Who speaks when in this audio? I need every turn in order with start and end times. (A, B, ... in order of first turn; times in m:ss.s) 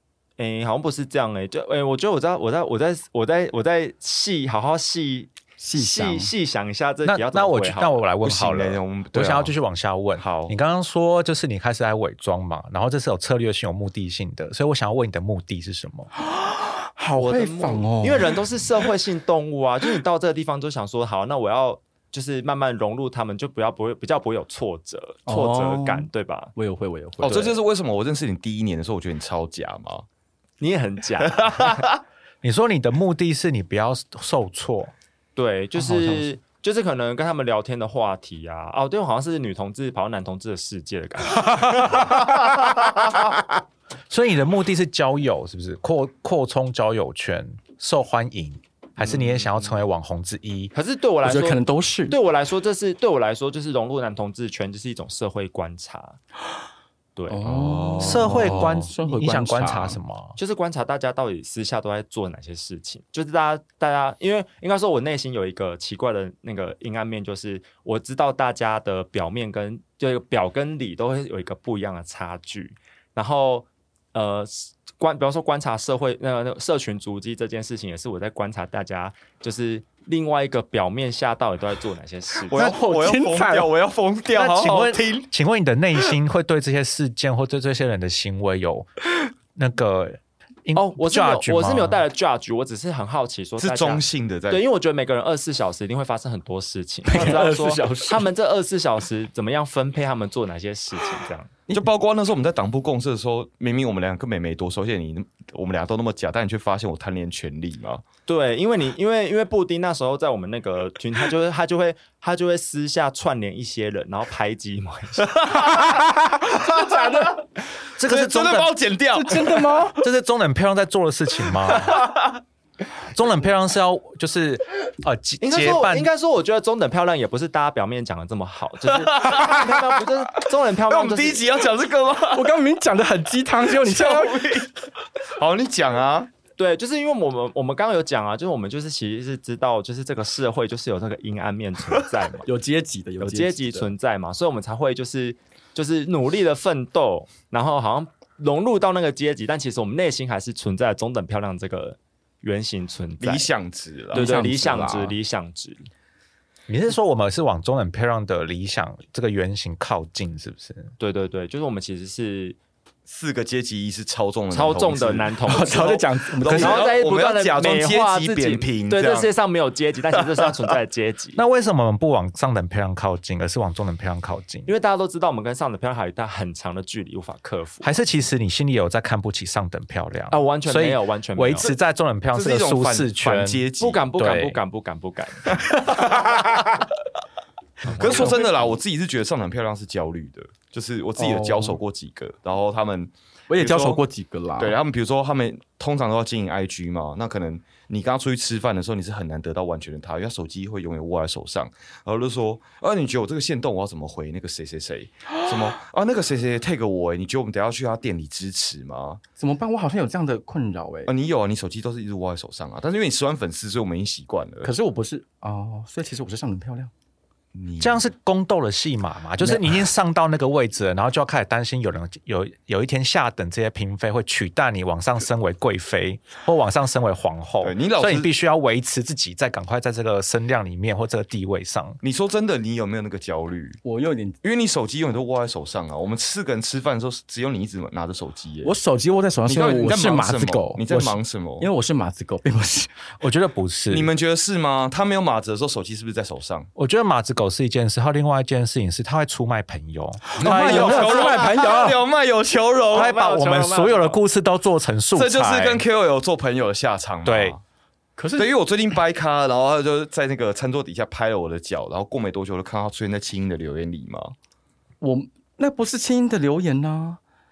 0:00.4-0:08.0 A
0:05.6-0:06.3 B
0:07.0-0:16.1 C
0:08.2-0:09.5 D
0:10.2-0:10.5 D
0:16.2-0:18.4 B
0:17.2-0:26.5 A
0:25.2-0:27.6 B
0:27.2-0:30.0 D
0:30.6-0:31.8 A
0:31.3-0:32.0 D
0:32.4-0:34.9 C
0:35.4-0:42.3 A
0:35.8-0:36.2 C
0:44.1-0:50.7 C
0:49.0-0:49.7 D
0:50.7-0:56.2 A
0:51.2-0:52.2 B
0:57.2-0:57.5 A
0:57.3-1:00.0 B
0:57.4-0:58.9 D
0:58.0-1:00.4 C
1:00.4-1:22.7 A
1:22.5-1:25.3 D
1:22.5-1:23.7 B
1:24.3-1:28.9 C
1:29.5-1:32.0 C
1:30.7-1:41.5 A
1:33.6-1:34.6 D
1:37.0-1:38.3 B
1:41.7-1:48.0 D
1:48.3-1:55.3 A
1:55.2-1:57.5 D
1:56.7-1:57.3 B
1:57.9-1:58.8 C
1:58.0-1:59.7 D
1:59.1-2:00.1 B
2:00.0-2:02.1 C
2:01.7-2:02.4 D
2:03.1-2:06.1 C
2:05.4-2:11.5 A
2:08.9-2:10.1 D
2:10.9-2:12.5 D
2:12.3-2:14.7 B
2:13.7-2:16.3 D
2:16.6-2:22.5 A
2:22.4-2:23.9 B
2:23.2-2:33.5 A
2:33.2-2:34.3 D
2:34.1-2:35.2 B
2:34.1-2:35.9 A
2:36.7-2:40.9 C
2:41.0-2:42.6 A
2:43.1-2:45.3 D
2:44.5-2:51.4 A
2:45.4-2:46.9 B
2:46.4-2:49.3 D
2:51.4-2:54.7 C
2:54.7-2:57.9 A
2:57.8-3:04.6 C
3:00.3-3:01.7 A
3:02.3-3:04.0 D
3:03.8-3:05.8 A
3:07.8-3:08.3 A
3:07.9-3:14.0 D
3:08.0-3:08.8 B
3:11.2-3:11.8 B
3:13.5-3:14.8 B
3:14.6-3:29.2 D
3:29.4-3:31.1 B
3:31.1-3:34.7 D
3:34.6-3:36.9 B
3:37.5-3:38.0 D
3:37.8-3:52.0 C
3:39.4-3:39.8 B
3:47.6-3:48.3 D
3:52.0-3:53.8 D
3:53.8-3:54.4 B
3:54.4-3:58.7 D
3:58.6-4:02.9 B
3:59.5-4:01.7 D
4:03.2-4:04.1 C
4:03.9-4:06.7 D
4:06.8-4:11.3 C
4:10.4-4:12.0 B
4:10.4-4:13.1 D
4:10.8-4:11.4 A
4:12.9-4:14.2 A
4:12.9-4:15.8 C
4:15.1-4:17.6 D
4:17.2-4:17.6 C
4:18.2-4:18.5 B
4:18.4-4:24.3 D
4:25.0-4:27.2 B